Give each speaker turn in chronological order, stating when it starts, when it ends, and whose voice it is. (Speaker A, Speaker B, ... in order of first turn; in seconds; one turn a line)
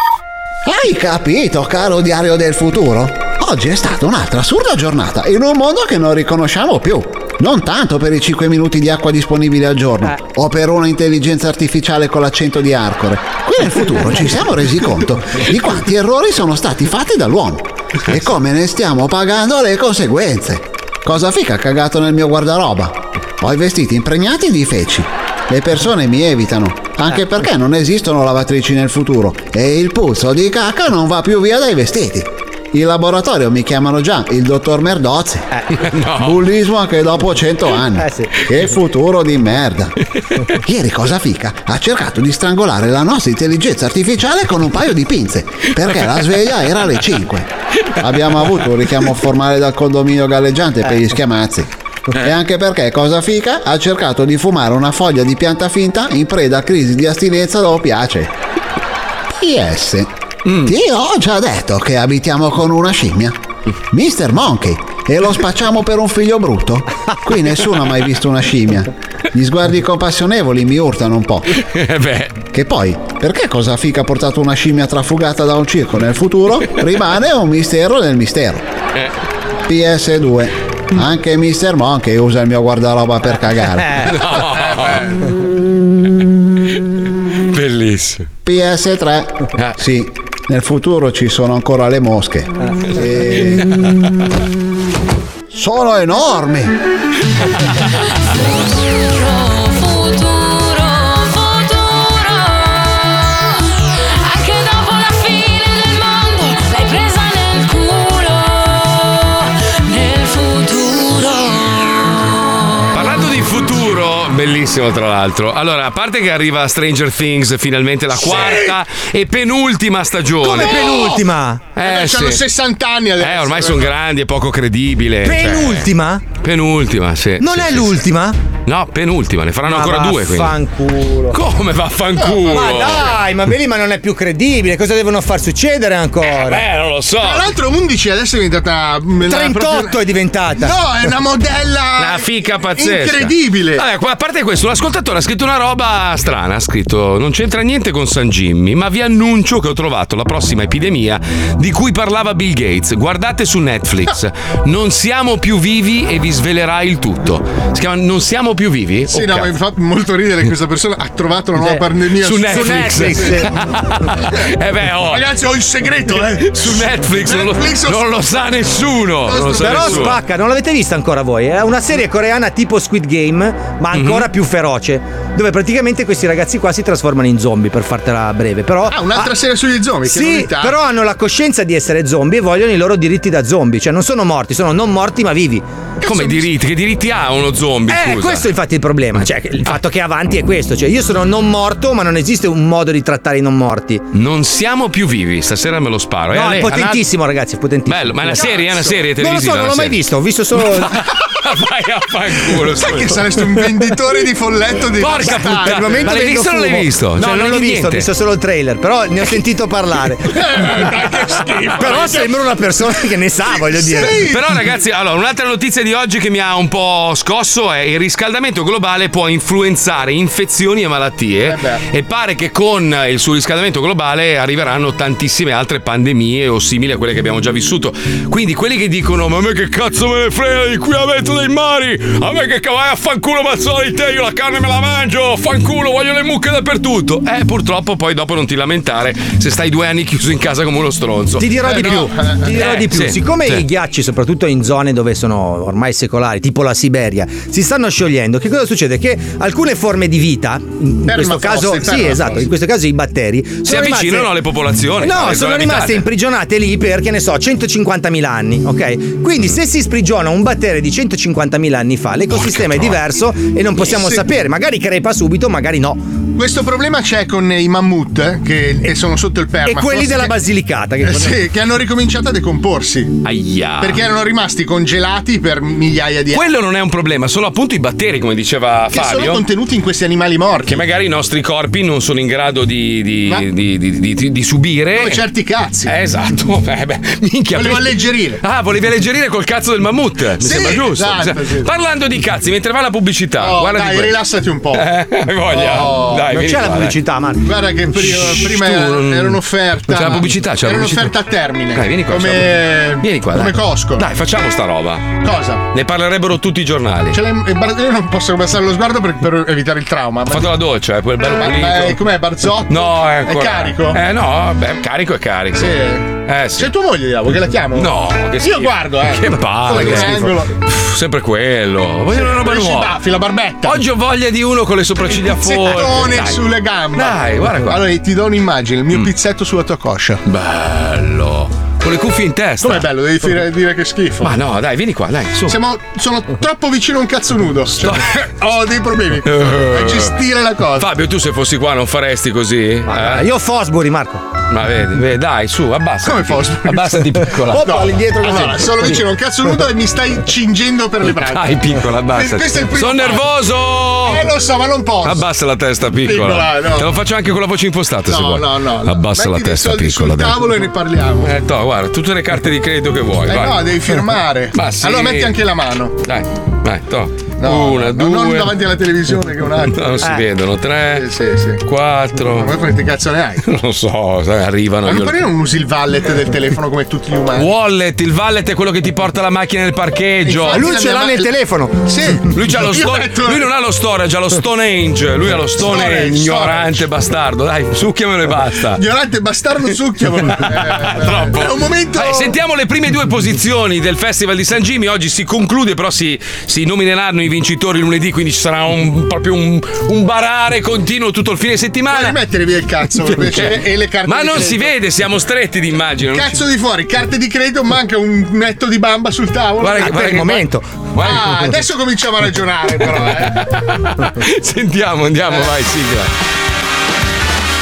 Speaker A: 0.7-35.5
Speaker B: 35.8-36.4
Speaker A: 36.2-39.9
Speaker C: 38.0-38.3
Speaker A: 40.6-47.5
Speaker A: 48.0-58.3
Speaker A: 59.3-60.1
Speaker A: 60.6-63.4
Speaker A: 63.9-71.5
Speaker B: 71.7-72.4
Speaker A: 72.5-78.7
Speaker A: 79.7-83.9
Speaker C: 83.8-84.1
Speaker B: 84.0-85.1
Speaker B: 87.5-88.3
Speaker A: 88.5-93.7
Speaker A: 95.5-96.8
Speaker D: 98.9-103.3
Speaker D: 104.2-109.2
Speaker D: 109.9-111.2
Speaker B: 112.9-121.1
Speaker E: 118.2-118.7
Speaker C: 120.4-121.7
Speaker B: 121.8-122.4
Speaker E: 121.8-123.9
Speaker B: 123.2-125.9
Speaker C: 125.2-126.2
Speaker B: 126.4-128.0
Speaker C: 127.4-128.4
Speaker B: 128.7-130.6
Speaker C: 129.7-131.4
Speaker B: 131.3-133.2
Speaker E: 132.2-132.5
Speaker C: 132.4-136.7
Speaker B: 136.3-137.5
Speaker E: 137.2-139.9
Speaker C: 139.2-140.8
Speaker E: 140.6-143.8
Speaker B: 142.0-159.5
Speaker E: 159.1-163.3
Speaker C: 161.6-161.8
Speaker B: 162.2-165.3
Speaker C: 162.5-163.5
Speaker E: 165.1-168.1
Speaker B: 166.1-170.2
Speaker E: 169.3-170.1
Speaker C: 169.6-179.3
Speaker B: 173.9-174.3
Speaker E: 178.9-180.8
Speaker C: 180.1-185.7
Speaker E: 186.0-186.5
Speaker B: 186.0-188.5
Speaker C: 187.9-194.0
Speaker B: 194.1-197.1
Speaker C: 196.3-201.0
Speaker B: 197.9-200.0
Speaker B: 200.6-203.3
Speaker E: 202.7-205.9
Speaker B: 205.0-208.1
Speaker C: 205.2-210.9
Speaker E: 211.0-212.0
Speaker C: 211.7-214.2
Speaker E: 213.8-214.4
Speaker B: 214.0-243.7
Speaker E: 221.5-221.8
Speaker C: 241.4-254.3
Speaker E: 241.7-242.4
Speaker E: 251.1-252.4
Speaker B: 253.7-256.1
Speaker C: 255.0-266.0
Speaker B: 262.3-263.0
Speaker E: 263.9-264.2
Speaker E: 266.4-270.4
Speaker C: 269.6-271.4
Speaker E: 271.1-273.2
Speaker B: 273.2-274.0
Speaker E: 273.8-276.4
Speaker B: 276.3-279.4
Speaker E: 278.9-280.8
Speaker B: 280.7-285.2
Speaker E: 284.9-285.9
Speaker B: 285.9-294.2
Speaker E: 287.5-288.4
Speaker E: 290.4-291.7
Speaker E: 293.4-294.9
Speaker B: 294.7-297.0
Speaker E: 295.5-296.2
Speaker C: 296.3-297.5
Speaker E: 297.4-304.1
Speaker B: 297.9-301.2
Speaker B: 301.7-305.2
Speaker E: 305.2-305.6
Speaker B: 305.7-307.2
Speaker E: 307.1-310.5
Speaker B: 310.3-312.0
Speaker E: 311.4-314.0
Speaker B: 312.7-316.7
Speaker E: 315.6-316.0
Speaker E: 316.6-317.9
Speaker B: 317.7-323.0
Speaker E: 318.4-320.5
Speaker E: 322.1-323.8
Speaker B: 323.6-327.9
Speaker E: 325.2-330.2
Speaker B: 330.2-332.9
Speaker E: 332.6-334.4
Speaker B: 334.2-335.6
Speaker E: 335.5-340.9
Speaker B: 337.8-338.3
Speaker B: 339.2-340.1
Speaker B: 340.8-343.2
Speaker C: 342.9-344.2
Speaker B: 344.5-348.4
Speaker E: 346.0-347.0
Speaker C: 347.5-348.9
Speaker E: 347.5-351.5
Speaker B: 351.0-354.3
Speaker E: 352.1-353.3
Speaker E: 354.1-355.2
Speaker B: 355.0-360.4
Speaker E: 356.0-356.9
Speaker E: 358.1-361.3
Speaker B: 361.2-365.4
Speaker E: 363.3-366.0
Speaker B: 366.0-368.6
Speaker E: 367.4-370.1
Speaker B: 369.6-371.1
Speaker E: 371.0-371.6
Speaker B: 371.6-372.5
Speaker E: 372.3-373.4
Speaker B: 373.4-375.3
Speaker E: 374.9-377.5
Speaker B: 377.4-380.7
Speaker E: 380.3-383.5
Speaker C: 380.5-381.9
Speaker B: 382.3-388.8
Speaker E: 385.6-386.8
Speaker E: 388.8-392.4
Speaker B: 390.3-402.2
Speaker E: 401.9-404.7
Speaker B: 403.0-406.4
Speaker E: 406.1-410.0
Speaker B: 409.6-411.6
Speaker C: 409.8-410.7
Speaker E: 411.0-413.4
Speaker B: 412.8-416.1